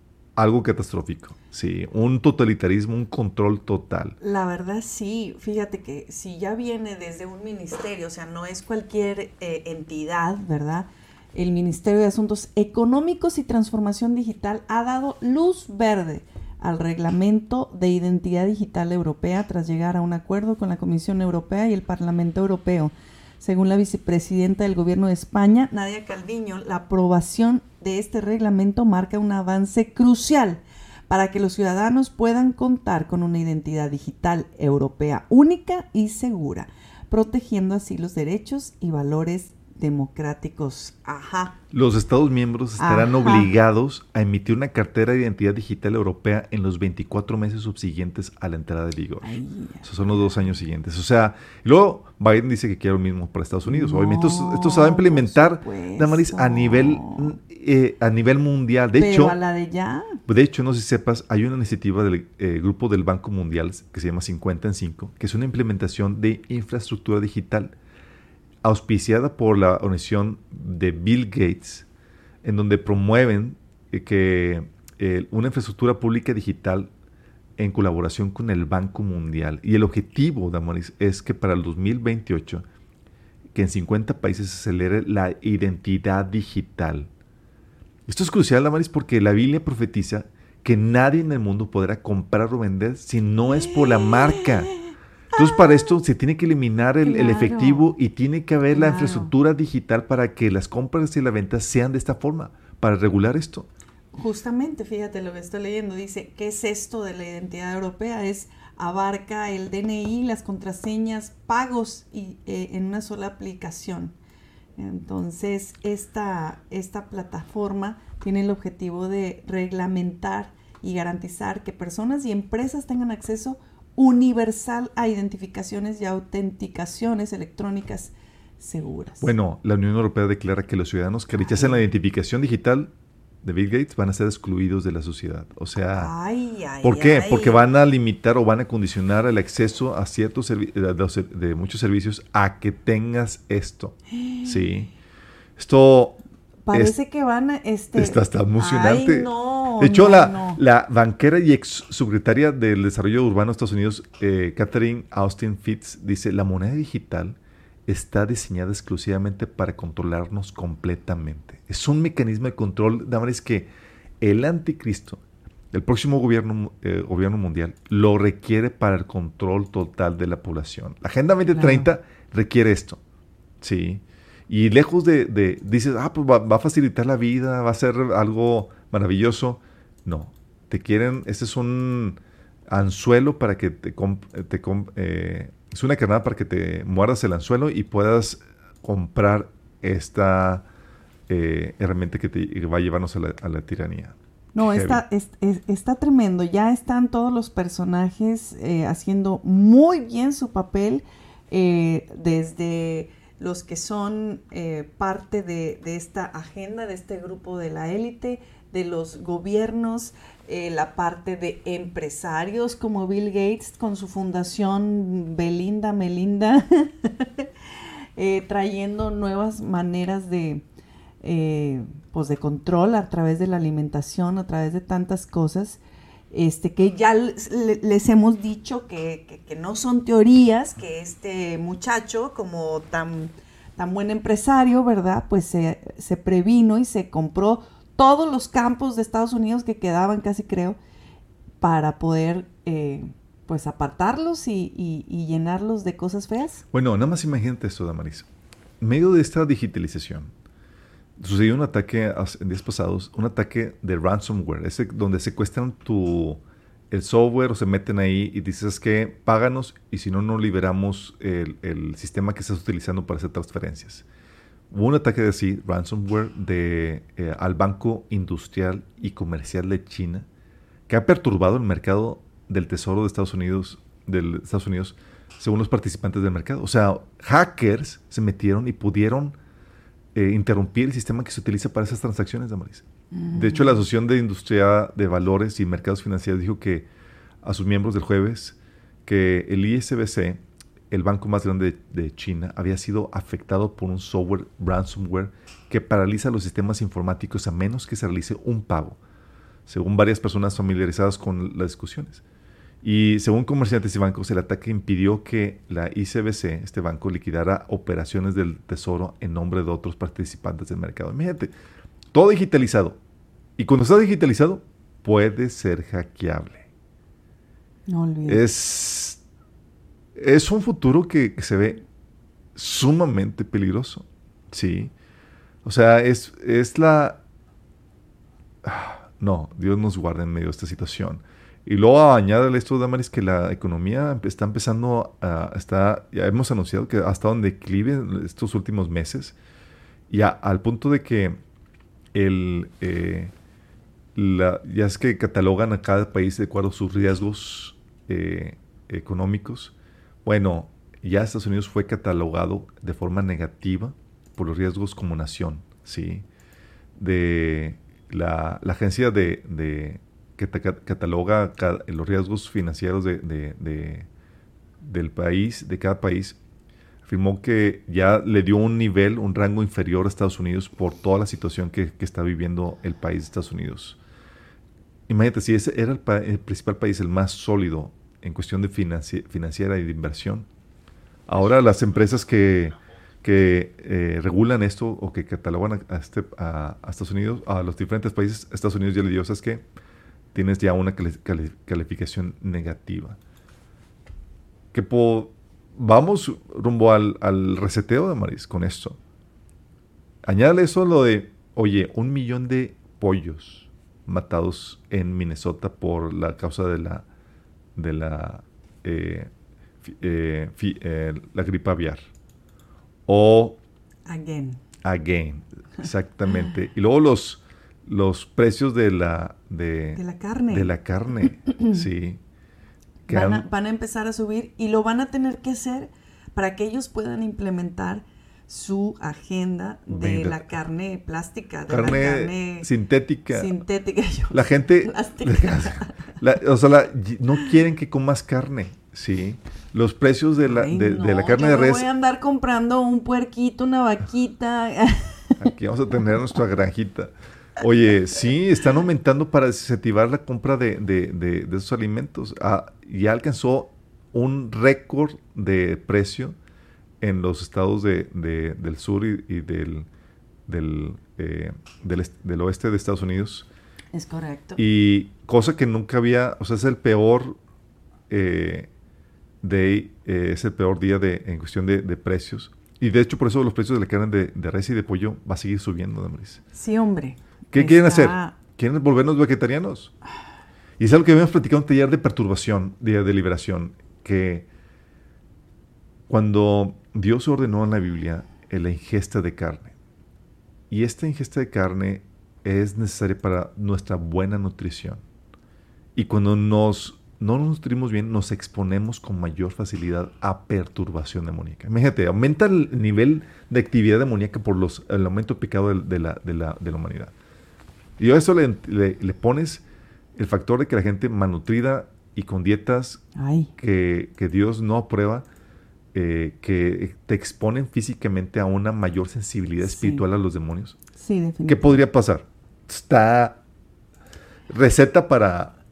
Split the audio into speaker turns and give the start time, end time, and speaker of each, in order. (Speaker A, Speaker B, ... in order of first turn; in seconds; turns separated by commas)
Speaker A: 0.4-4.2, Speaker B: 4.2-41.6, Speaker A: 41.7-59.4, Speaker B: 42.8-43.5, Speaker B: 49.2-49.9, Speaker B: 53.7-57.4, Speaker B: 59.0-60.2, Speaker A: 60.3-67.7, Speaker A: 68.6-71.9, Speaker A: 72.4-76.9, Speaker A: 77.6-82.7, Speaker A: 83.5-87.1, Speaker A: 88.1-94.7, Speaker B: 93.4-95.9, Speaker A: 95.3-103.7, Speaker B: 97.0-97.9, Speaker B: 98.7-99.3, Speaker B: 104.1-114.2, Speaker B: 114.8-129.3, Speaker A: 129.2-132.9, Speaker B: 131.4-131.8, Speaker A: 133.4-136.1, Speaker B: 135.9-137.6, Speaker A: 136.8-144.9, Speaker B: 144.1-144.9, Speaker A: 145.6-146.2, Speaker B: 146.7-150.6, Speaker A: 147.9-163.7, Speaker A: 164.2-165.2, Speaker A: 165.7-173.0, Speaker B: 171.5-171.9, Speaker A: 173.6-190.7, Speaker A: 191.3-195.0, Speaker B: 194.5-217.5, Speaker B: 218.2-220.6, Speaker B: 221.2-225.8, Speaker B: 226.3-240.8, Speaker B: 241.6-246.6, Speaker A: 246.7-248.3, Speaker A: 248.8-250.3, Speaker A: 251.2-264.1, Speaker A: 264.7-270.3, Speaker A: 270.9-279.4, Speaker A: 280.1-286.9, Speaker B: 283.1-283.8, Speaker A: 287.4-299.0, Speaker A: 299.7-302.2, Speaker A: 302.8-311.5, Speaker A: 312.1-313.0, Speaker A: 313.6-316.6, Speaker B: 317.9-318.4, Speaker A: 318.3-319.2, Speaker A: 320.2-321.9, Speaker A: 322.6-324.9, Speaker A: 325.6-327.2, Speaker A: 328.6-339.4, Speaker A: 340.1-341.4, Speaker A: 342.1-343.3, Speaker A: 344.1-356.3, Speaker A: 356.9-364.1, Speaker A: 364.8-366.4, Speaker A: 367.1-374.0, Speaker A: 375.1-380.5, Speaker A: 381.3-389.6, Speaker A: 390.3-393.2, Speaker A: 394.7-399.0, Speaker A: 400.2-407.1, Speaker A: 407.8-409.3, Speaker A: 409.8-412.1, Speaker A: 413.1-413.6, Speaker B: 414.1-414.6, Speaker A: 414.8-422.2, Speaker B: 419.9-420.7, Speaker B: 421.5-421.8, Speaker A: 423.1-423.4, Speaker B: 423.1-432.7, Speaker A: 429.9-430.5, Speaker A: 431.7-433.6, Speaker B: 433.3-436.0, Speaker A: 434.3-441.9, Speaker B: 440.4-445.5, Speaker A: 445.4-456.4, Speaker A: 457.0-459.9, Speaker A: 460.5-463.5, Speaker B: 463.9-464.6, Speaker A: 464.6-467.4, Speaker A: 468.1-468.7, Speaker A: 469.4-476.4, Speaker B: 476.5-478.4, Speaker A: 477.5-479.9, Speaker A: 480.8-484.5, Speaker A: 486.1-489.7, Speaker A: 490.7-495.0, Speaker A: 495.9-507.1, Speaker A: 508.0-509.6, Speaker A: 510.2-513.0, Speaker B: 513.2-513.5, Speaker A: 513.6-515.3, Speaker A: 515.9-520.8, Speaker B: 519.6-520.0, Speaker B: 521.0-521.8, Speaker A: 521.5-523.4, Speaker A: 524.5-525.5